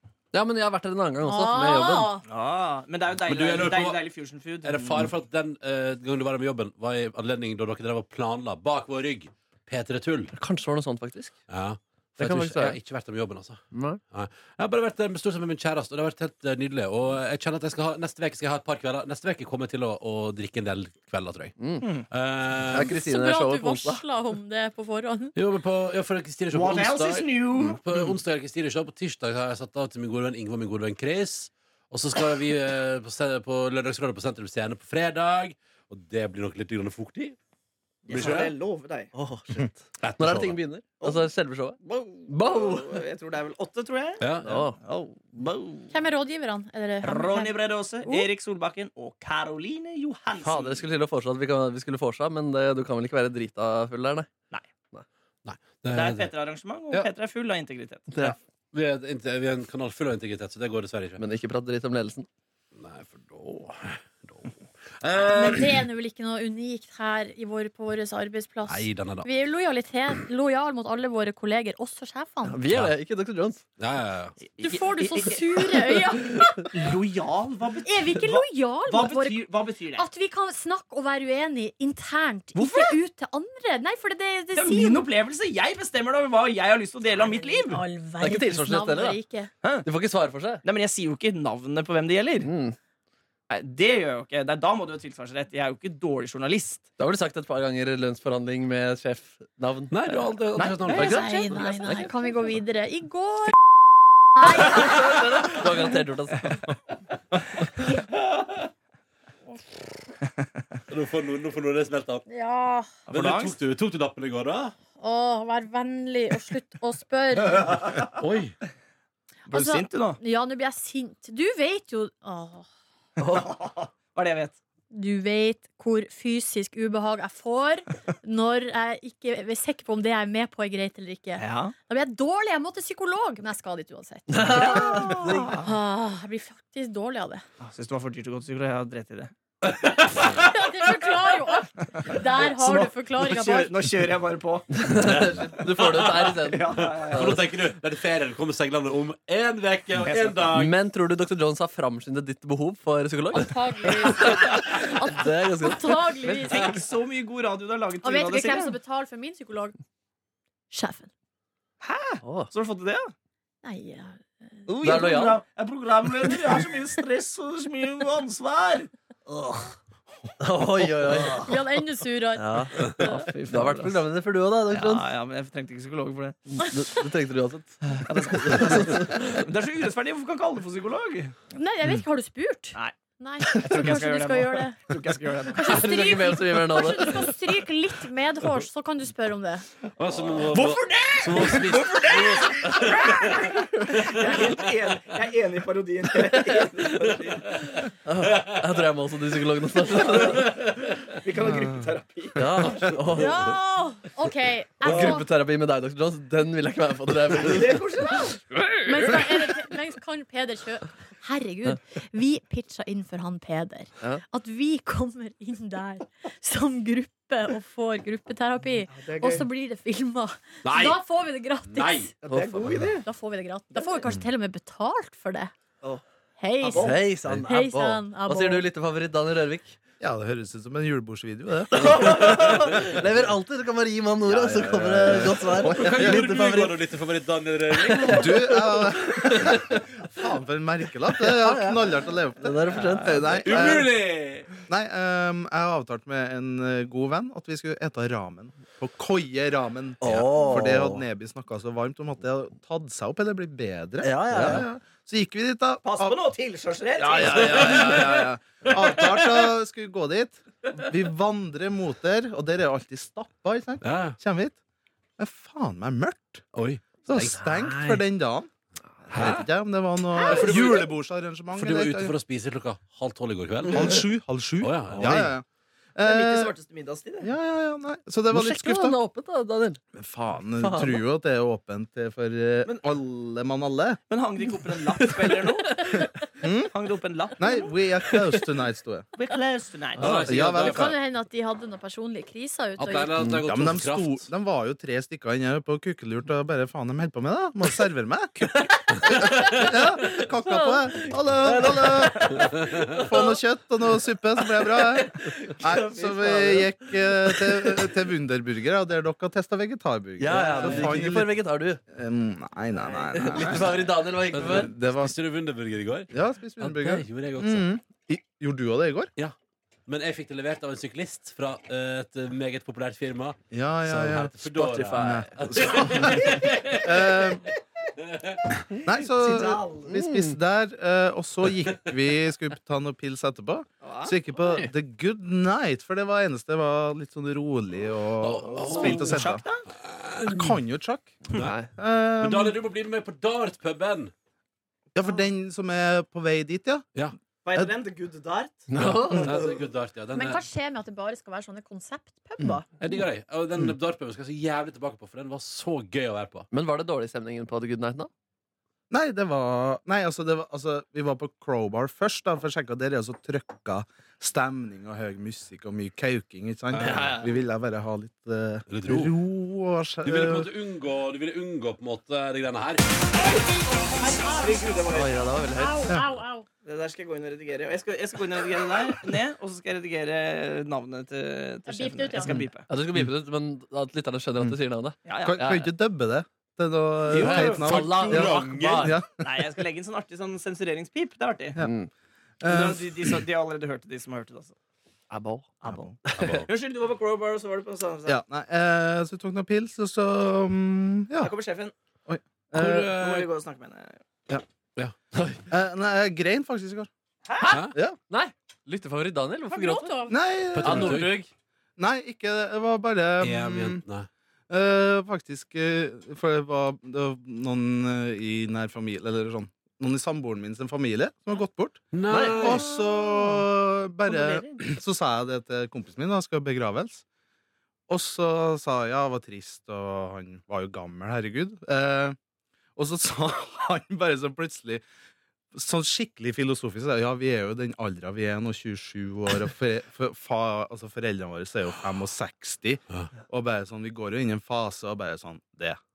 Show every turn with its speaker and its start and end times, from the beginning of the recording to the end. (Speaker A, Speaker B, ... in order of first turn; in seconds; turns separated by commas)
Speaker A: 0.3-2.1, Speaker B: 1.2-2.2, Speaker C: 2.2-5.1, Speaker D: 3.2-4.0, Speaker D: 4.6-10.3, Speaker A: 10.3-11.3, Speaker D: 11.5-21.5, Speaker A: 12.2-12.8, Speaker A: 13.7-14.0, Speaker A: 21.6-21.9, Speaker D: 22.1-22.9, Speaker A: 22.7-24.0, Speaker B: 22.8-25.3, Speaker D: 25.3-37.4, Speaker C: 26.5-28.0, Speaker C: 38.1-39.1, Speaker D: 38.1-38.5, Speaker A: 39.1-42.9, Speaker D: 40.0-40.6, Speaker C: 41.0-41.2, Speaker C: 41.8-46.0, Speaker D: 44.2-44.6, Speaker A: 44.4-44.8, Speaker B: 45.9-48.3, Speaker C: 47.0-50.8, Speaker A: 50.4-54.3, Speaker D: 55.4-56.3, Speaker C: 55.9-58.1, Speaker A: 58.1-58.4, Speaker D: 58.2-61.2, Speaker A: 61.2-62.3, Speaker D: 62.7-65.8, Speaker B: 65.3-72.6, Speaker D: 68.7-69.3, Speaker A: 72.4-73.6, Speaker D: 72.7-72.9, Speaker D: 73.8-74.4, Speaker C: 74.4-80.1, Speaker B: 74.6-76.8, Speaker B: 77.8-85.1, Speaker A: 82.5-83.0, Speaker C: 84.5-87.8, Speaker B: 87.2-89.5, Speaker A: 88.2-89.2, Speaker A: 89.8-90.6, Speaker C: 90.6-92.5, Speaker A: 92.4-92.8, Speaker C: 93.5-96.8, Speaker A: 97.0-99.9, Speaker D: 99.9-101.5, Speaker C: 100.1-100.9, Speaker B: 100.8-103.5, Speaker A: 100.9-102.3, Speaker B: 104.3-105.5, Speaker A: 104.6-106.7, Speaker B: 107.8-108.0, Speaker C: 110.2-110.6, Speaker D: 110.9-112.2, Speaker B: 112.3-113.0, Speaker C: 113.1-113.6, Speaker D: 113.1-114.7, Speaker B: 115.0-117.9, Speaker D: 118.1-118.6, Speaker B: 119.5-122.7, Speaker C: 119.5-120.2, Speaker C: 123.2-124.6, Speaker B: 124.9-137.4, Speaker C: 131.4-131.8, Speaker A: 134.3-135.1, Speaker C: 134.5-135.7, Speaker C: 137.6-139.3, Speaker D: 139.6-140.4, Speaker B: 140.3-143.7, Speaker C: 141.8-144.9, Speaker A: 144.7-147.4, Speaker D: 144.9-150.7, Speaker C: 146.3-147.4, Speaker C: 149.9-150.5, Speaker A: 150.5-153.5, Speaker B: 153.3-156.7, Speaker A: 154.0-156.4, Speaker C: 154.3-154.8, Speaker C: 156.3-158.8, Speaker B: 158.0-159.7, Speaker B: 160.7-161.1, Speaker C: 161.8-163.1, Speaker A: 162.2-162.5, Speaker B: 163.6-165.0, Speaker C: 164.7-169.7, Speaker A: 164.8-165.4, Speaker A: 170.4-171.5, Speaker C: 171.0-171.6, Speaker B: 171.4-173.3, Speaker A: 172.4-175.1, Speaker C: 173.5-174.0, Speaker C: 174.7-176.4, Speaker A: 176.6-179.4, Speaker B: 176.6-177.0, Speaker C: 178.0-181.3, Speaker B: 181.5-184.9, Speaker C: 182.7-185.8, Speaker B: 185.5-189.7, Speaker A: 185.7-187.2, Speaker D: 190.0-193.4, Speaker C: 190.1-197.8, Speaker B: 192.8-193.2, Speaker A: 198.1-200.5, Speaker C: 200.0-200.5, Speaker C: 201.1-202.6, Speaker A: 202.4-203.4, Speaker B: 203.1-205.3, Speaker A: 204.8-207.8, Speaker C: 204.9-205.1, Speaker C: 207.3-208.6, Speaker B: 208.8-222.1, Speaker C: 218.9-219.5, Speaker D: 220.6-221.1, Speaker D: 221.6-222.1, Speaker C: 222.2-223.1, Speaker A: 222.2-222.9, Speaker B: 223.0-225.5, Speaker C: 223.7-224.1, Speaker B: 226.4-228.7, Speaker C: 226.6-227.0, Speaker A: 226.7-229.8, Speaker E: 230.0-232.0, Speaker A: 231.7-236.8, Speaker E: 234.2-236.2, Speaker D: 235.7-238.2, Speaker A: 237.9-239.7, Speaker E: 238.0-243.9, Speaker A: 241.2-243.4, Speaker C: 242.8-243.3, Speaker D: 243.4-244.5, Speaker E: 244.7-256.2, Speaker A: 250.0-251.0, Speaker A: 254.0-254.7, Speaker C: 255.8-257.9, Speaker E: 257.0-264.6, Speaker D: 257.3-259.4, Speaker D: 263.8-264.2, Speaker E: 265.2-266.4, Speaker D: 266.5-267.6, Speaker E: 267.1-268.5, Speaker A: 267.6-268.0, Speaker D: 269.1-269.5, Speaker E: 269.1-272.1, Speaker D: 270.2-270.9, Speaker D: 271.5-274.0, Speaker E: 273.7-275.4, Speaker D: 274.6-275.3, Speaker A: 275.0-275.3, Speaker E: 275.9-276.5, Speaker C: 276.0-277.3, Speaker E: 277.2-279.0, Speaker A: 278.3-279.8, Speaker E: 279.9-284.0, Speaker A: 280.6-281.0, Speaker C: 284.1-286.1, Speaker A: 284.9-286.0, Speaker E: 286.4-286.7, Speaker C: 286.7-287.6, Speaker E: 287.4-289.1, Speaker C: 289.1-290.2, Speaker D: 290.0-290.9, Speaker E: 290.1-291.0, Speaker B: 290.6-293.2, Speaker D: 292.8-294.3, Speaker E: 293.4-311.4, Speaker A: 299.6-300.2, Speaker A: 300.9-303.3, Speaker A: 304.5-307.8, Speaker A: 310.2-311.8, Speaker C: 310.5-310.9, Speaker E: 311.9-313.8, Speaker C: 312.8-313.7, Speaker A: 313.1-314.7, Speaker D: 314.3-317.7, Speaker E: 314.3-315.1, Speaker E: 316.1-319.1, Speaker D: 319.9-327.4, Speaker E: 323.5-324.4, Speaker A: 324.4-325.7, Speaker E: 324.9-327.5, Speaker D: 328.1-328.4, Speaker E: 328.7-339.4, Speaker C: 329.2-330.0, Speaker A: 329.9-330.3, Speaker C: 333.8-334.1, Speaker D: 338.2-339.2, Speaker C: 338.6-339.6, Speaker D: 339.8-340.6, Speaker E: 340.3-341.2, Speaker A: 341.4-341.7, Speaker E: 341.7-342.6, Speaker D: 342.2-344.1, Speaker E: 344.9-346.9, Speaker C: 347.4-349.3, Speaker A: 348.7-349.4, Speaker D: 348.8-350.4, Speaker B: 350.1-352.6, Speaker D: 352.8-356.5, Speaker A: 356.5-358.1, Speaker E: 358.9-370.5, Speaker D: 366.7-367.1, Speaker A: 366.7-367.3, Speaker D: 368.7-369.1, Speaker D: 370.0-372.8, Speaker B: 373.7-374.7, Speaker C: 373.8-375.2, Speaker A: 374.9-375.8, Speaker B: 375.5-376.5, Speaker C: 376.6-382.7, Speaker B: 381.6-382.4, Speaker A: 382.4-385.7, Speaker C: 385.1-385.4, Speaker E: 385.2-389.2, Speaker C: 387.1-387.6, Speaker D: 387.1-388.9, Speaker A: 387.1-389.0, Speaker C: 389.2-391.6, Speaker A: 391.6-391.9, Speaker E: 392.4-393.2, Speaker C: 392.4-394.6, Speaker A: 395.1-395.5, Speaker C: 395.6-398.2, Speaker E: 395.6-395.9, Speaker A: 396.0-396.4, Speaker D: 396.2-396.5, Speaker E: 398.1-401.3, Speaker C: 401.2-401.7, Speaker E: 402.1-403.2, Speaker D: 402.5-403.2, Speaker C: 402.9-404.0, Speaker A: 405.1-405.4, Speaker E: 405.5-406.9, Speaker C: 407.2-407.6, Speaker D: 407.4-407.8, Speaker E: 407.7-408.0, Speaker A: 408.1-410.0, Speaker B: 409.5-410.1, Speaker E: 410.1-411.1, Speaker D: 410.5-411.1, Speaker A: 410.6-411.3, Speaker E: 411.8-413.8, Speaker D: 413.2-414.1, Speaker E: 414.5-427.0, Speaker D: 421.9-422.6, Speaker A: 422.1-422.6, Speaker C: 422.4-423.4, Speaker C: 424.1-424.8, Speaker E: 427.9-432.2, Speaker E: 432.8-434.8, Speaker E: 435.5-445.8